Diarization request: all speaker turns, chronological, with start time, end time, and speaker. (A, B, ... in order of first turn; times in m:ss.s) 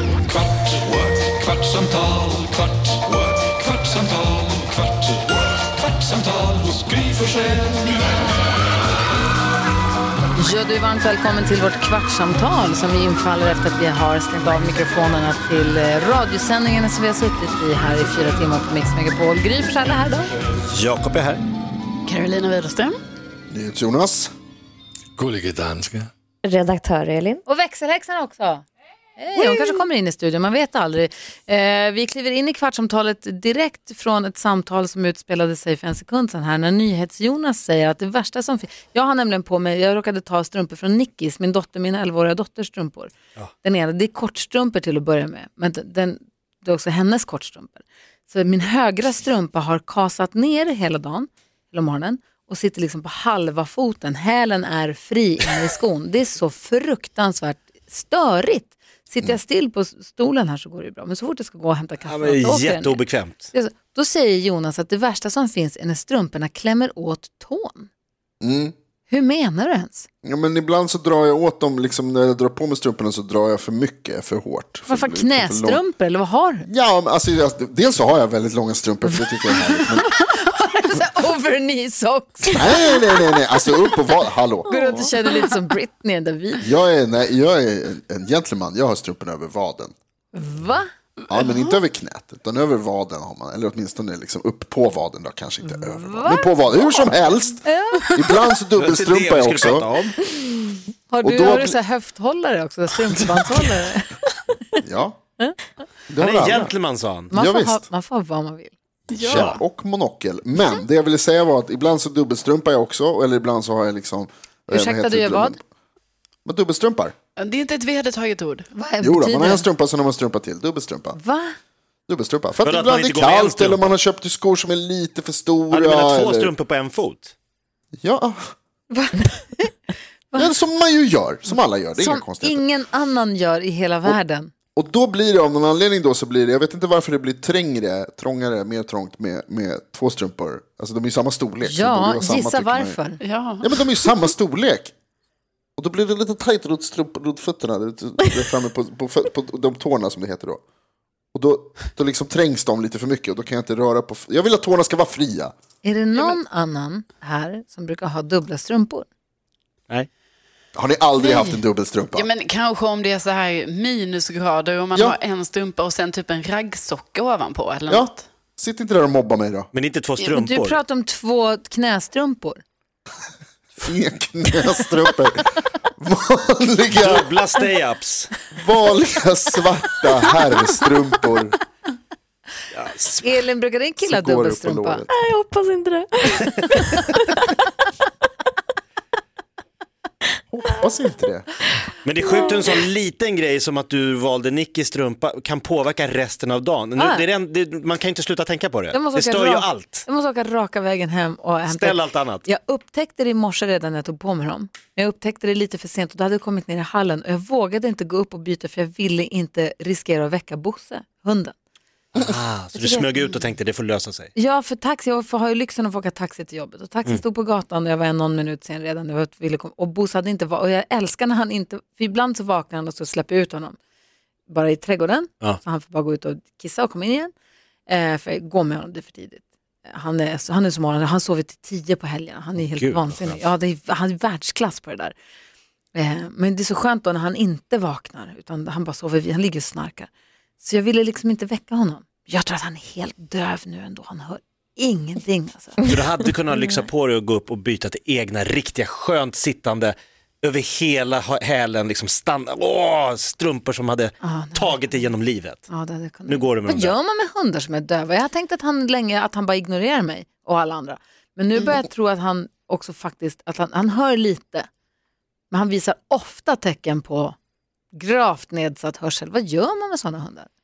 0:00.3-0:08.0 A
0:10.4-0:20.3 B
0:20.7-0:21.4 C
0:22.1-0:22.9 D
0:23.5-0:24.3 E
0:25.2-0:26.1 A
0:26.4-0:27.4 F
0:27.4-0:28.6 B
0:29.2-1:07.9 B
1:02.1-1:03.5 C
1:08.4-1:08.7 E
1:09.1-1:10.1 B
1:10.2-1:15.8 E
1:14.9-1:16.7 B
1:16.6-1:20.1 E
1:19.3-1:23.0 B
1:22.5-1:24.7 E
1:24.7-1:26.6 B
1:24.7-1:25.1 F
1:26.6-1:29.9 E
1:30.3-1:30.9 B
1:31.3-1:40.0 E
1:35.6-1:38.1 B
1:38.8-1:40.2 C
1:41.1-1:44.2 B
1:41.2-1:41.8 E
1:44.8-1:45.2 E
1:46.1-1:46.7 E
1:46.2-1:47.3 C
1:47.3-1:48.7 B
1:47.3-1:47.8 E
1:49.1-1:55.6 E
1:49.2-1:49.6 C
1:54.7-1:55.6 B
1:56.4-1:57.1 E
1:57.4-1:58.6 D
1:58.7-1:59.6 B
1:59.0-2:01.2 E
2:01.1-2:01.5 B
2:02.1-2:06.5 E
2:02.6-2:04.0 C
2:05.7-2:07.3 C
2:08.0-2:08.5 E
2:08.9-2:09.8 B
2:10.4-2:12.6 E
2:12.0-2:14.5 B
2:14.8-2:23.0 E
2:21.6-2:23.2 B
2:23.6-2:24.9 E
2:25.8-2:30.6 E
2:31.3-2:35.5 E
2:35.8-2:39.1 B
2:40.7-2:42.3 E
2:42.2-2:48.2 D
2:47.9-2:49.7 E
2:49.7-2:50.8 C
2:50.2-2:52.6 B
2:53.8-2:57.3 E
2:56.9-2:58.3 C
2:58.5-3:01.6 E
3:02.7-3:03.4 C
3:03.2-3:05.0 B
3:04.0-3:05.1 E
3:05.1-3:07.5 F
3:10.5-3:11.5 E
3:12.0-3:20.0 C
3:12.2-3:12.7 F
3:17.0-3:17.2 B
3:18.9-3:31.5 B
3:21.6-3:22.4 C
3:32.1-3:34.3 C
3:32.8-3:33.4 B
3:34.3-3:43.8 B
3:44.5-3:47.3 B
3:47.9-3:55.1 B
3:52.6-3:53.4 C
3:55.9-4:00.1 B
4:00.6-4:05.8 B
4:05.9-4:15.7 C
4:14.2-4:15.1 B
4:15.7-4:24.7 B
4:16.2-4:17.0 C
4:25.5-4:27.4 B
4:27.9-4:30.5 B